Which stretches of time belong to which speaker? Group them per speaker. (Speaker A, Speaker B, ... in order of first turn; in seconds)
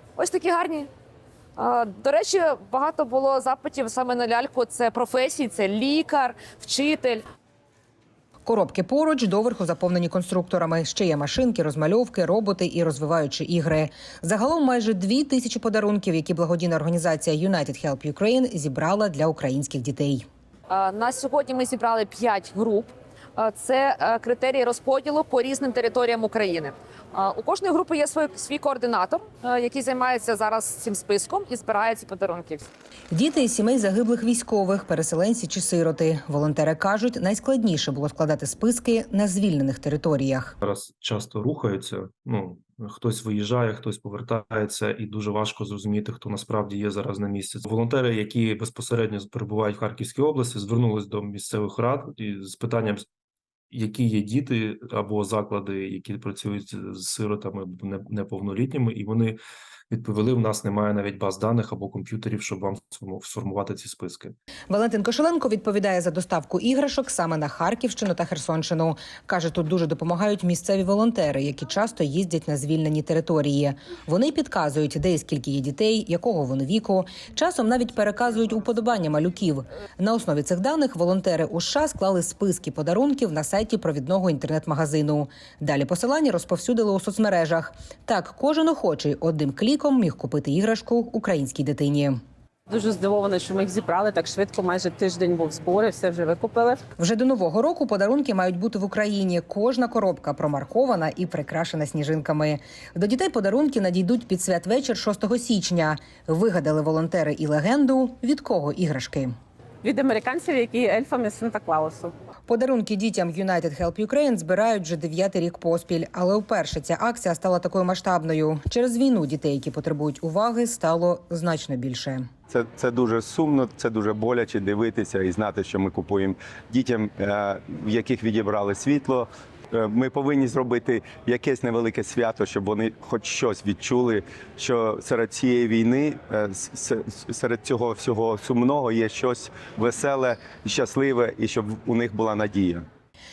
Speaker A: 0.2-0.9, 1.6-7.2, 20.7-32.7
Speaker B: 8.4-20.2, 33.1-40.5, 64.7-92.2, 97.0-109.3, 112.5-122.3
Speaker C: 40.6-53.0, 53.7-59.4, 59.9-64.4
Speaker D: 92.7-96.8, 109.8-112.1
Speaker E: 122.5-142.9